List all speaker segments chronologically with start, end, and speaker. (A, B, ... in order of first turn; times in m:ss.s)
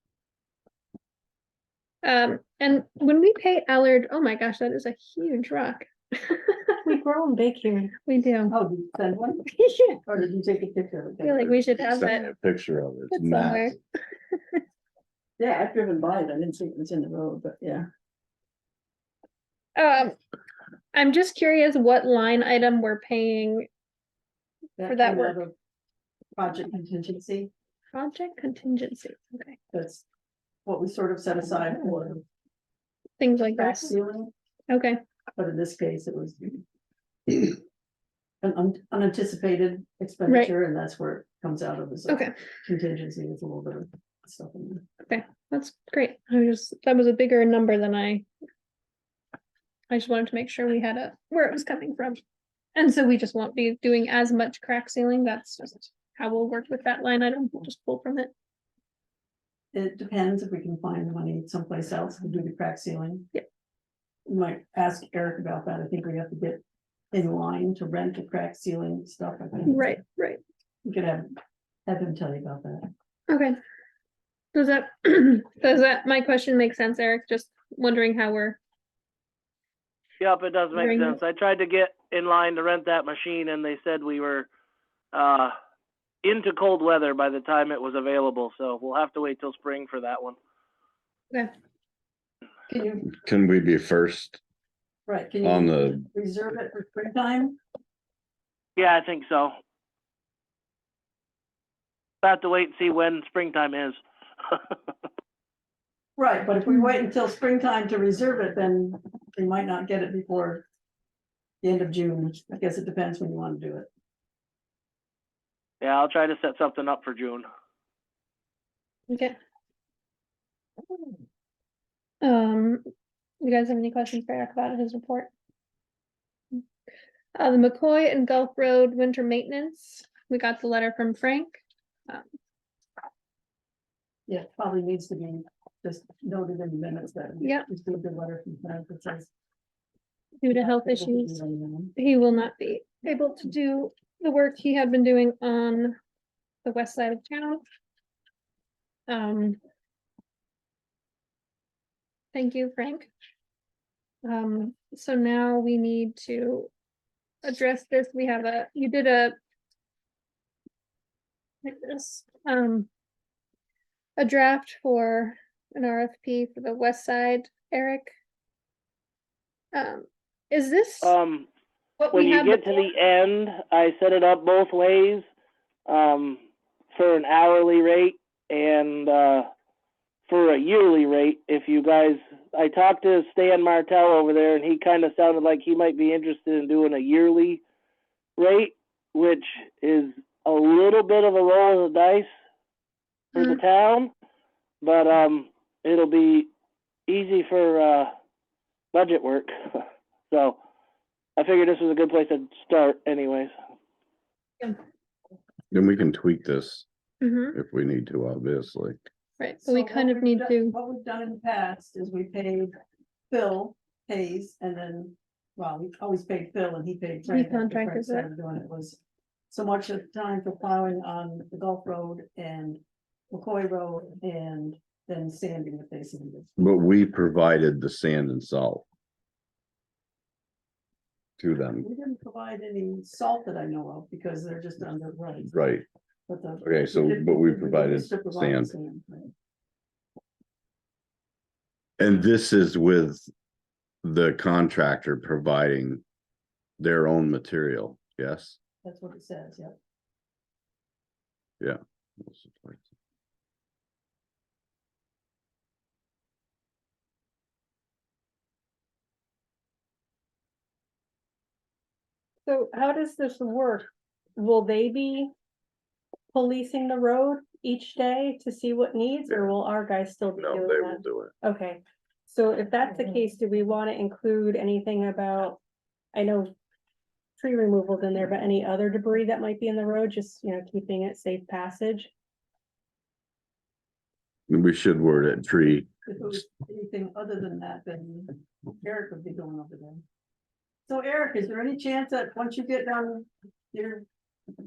0:02.0-0:06.9 A
0:06.8-0:07.9 B
0:07.9-0:08.6 A
0:08.5-0:09.5 C
0:09.5-0:10.0 A
0:10.0-0:11.6 C
0:11.2-0:12.3 A
0:11.8-0:13.8 D
0:13.1-0:13.8 A
0:14.3-0:14.6 A
0:15.4-0:17.9 C
0:19.7-0:20.2 A
0:20.9-0:23.7 A
0:24.8-0:25.5 C
0:24.8-0:25.4 A
0:26.4-0:27.5 C
0:27.9-0:29.6 A
0:29.7-0:30.0 C
0:30.6-0:32.2 C
0:33.2-0:33.9 A
0:33.6-0:34.3 C
0:34.7-0:35.0 A
0:35.3-0:36.6 C
0:37.3-0:37.6 C
0:38.4-0:44.8 C
0:40.3-0:40.5 A
0:45.0-0:48.2 A
0:49.9-0:52.2 A
0:52.7-0:58.3 A
0:59.7-1:03.3 C
1:04.2-1:09.9 C
1:09.7-1:10.4 A
1:10.8-1:11.3 C
1:11.8-1:12.9 C
1:13.3-1:13.6 A
1:14.5-1:18.6 A
1:20.2-1:24.5 E
1:20.7-1:21.2 A
1:25.1-1:25.5 E
1:26.2-1:30.4 E
1:32.7-1:33.1 C
1:33.1-1:34.4 D
1:35.1-1:37.6 C
1:35.4-1:36.0 D
1:38.8-1:39.6 E
1:42.2-1:44.0 E
1:46.2-1:50.6 C
1:51.6-1:53.9 C
1:55.8-1:57.5 E
1:59.1-1:59.3 A
2:02.2-2:02.8 A
2:03.4-2:05.3 A
2:07.3-2:12.2 A
2:14.3-2:19.3 C
2:17.4-2:17.7 A
2:20.4-2:21.4 A
2:20.5-2:21.9 C
2:22.0-2:26.0 A
2:26.6-2:27.6 A
2:29.1-2:29.6 A
2:32.3-2:33.1 A
2:34.2-2:36.7 A
2:37.4-2:39.4 A
2:41.6-2:42.9 A
2:44.2-2:48.1 A
2:49.7-2:51.1 A
2:51.0-2:51.5 E
2:52.0-2:52.9 A
2:52.1-2:55.2 E
2:55.8-2:56.4 E
2:56.9-2:59.5 E
3:00.3-3:07.6 E
3:08.4-3:12.3 E
3:13.3-3:14.1 E
3:14.8-3:16.5 E
3:17.1-3:18.1 E
3:18.9-3:20.6 E
3:21.4-3:23.5 E
3:25.7-3:26.8 D
3:27.2-3:27.6 A
3:27.5-3:29.0 D
3:29.4-3:30.8 A
3:29.6-3:32.7 C
3:33.3-3:39.0 C
3:37.3-3:38.3 A
3:39.5-3:46.5 C
3:46.6-3:48.8 D
3:51.4-3:51.8 D
3:51.8-3:55.5 C
3:55.5-3:55.8 D
3:56.3-3:59.3 C
3:56.6-3:58.7 D
4:02.0-4:03.3 D
4:04.0-4:06.0 D
4:06.8-4:08.6 D
4:08.8-4:09.8 C
4:11.6-4:12.8 D
4:22.5-4:23.9 A
4:24.4-4:25.2 B
4:24.4-4:25.1 A
4:26.3-4:35.6 B
4:30.4-4:31.3 D
4:36.1-4:36.5 B
4:37.4-4:42.1 B
4:44.5-4:45.9 D
4:46.0-4:50.0 C
4:50.9-4:54.0 C